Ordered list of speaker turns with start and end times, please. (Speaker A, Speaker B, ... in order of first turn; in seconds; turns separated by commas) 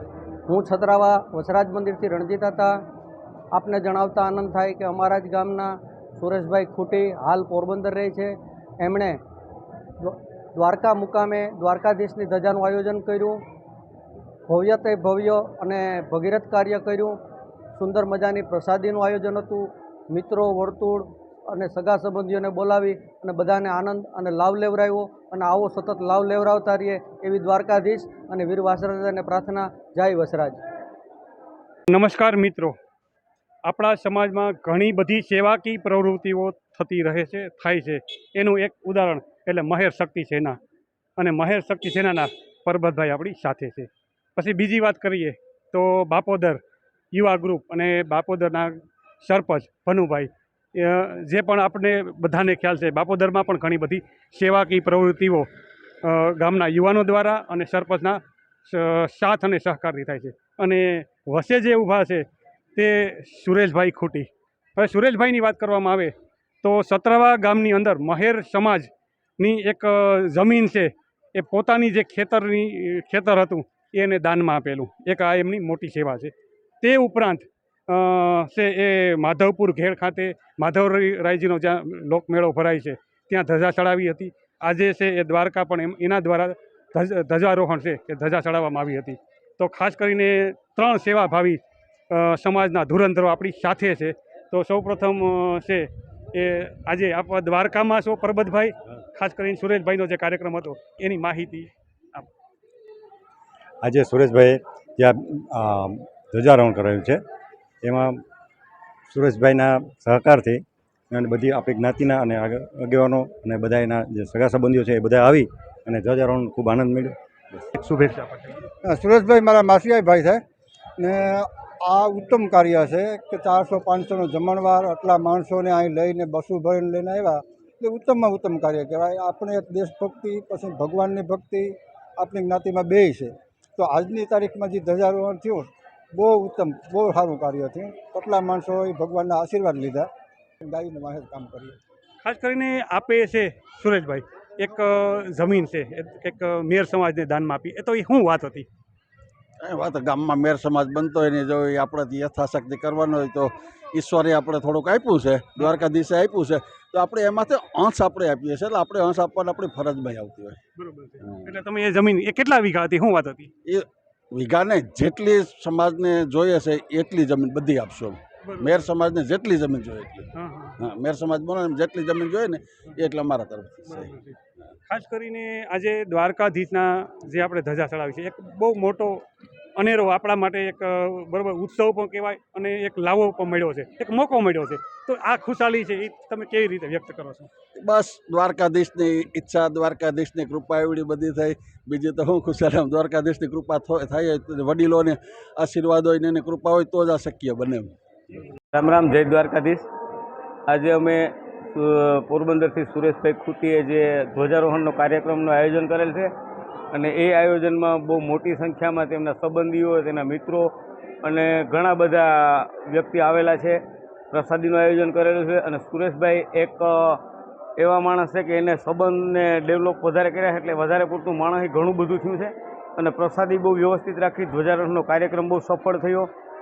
Speaker A: 0.5-2.8, Speaker A: 3.5-9.2, Speaker A: 10.0-13.4, Speaker A: 14.5-17.2, Speaker A: 17.8-30.6, Speaker B: 31.9-32.8, Speaker B: 33.6-40.6, Speaker B: 41.2-46.6, Speaker B: 47.1-55.5, Speaker B: 56.0-91.6, Speaker B: 92.1-102.3, Speaker C: 103.8-107.2, Speaker C: 107.8-108.2, Speaker C: 109.1-117.2, Speaker B: 117.8-118.7, Speaker D: 118.8-120.4, Speaker D: 121.0-140.1, Speaker D: 140.6-141.8, Speaker B: 142.2-148.7, Speaker E: 149.6-160.6, Speaker B: 160.8-163.5, Speaker E: 163.7-174.1, Speaker B: 168.5-168.8, Speaker B: 170.4-170.8, Speaker B: 173.9-174.4, Speaker B: 174.9-179.2, Speaker B: 179.8-187.5, Speaker E: 187.8-197.9, Speaker F: 198.7-199.9, Speaker F: 200.7-206.3, Speaker F: 206.9-213.8, Speaker F: 214.3-217.2, Speaker F: 217.8-226.3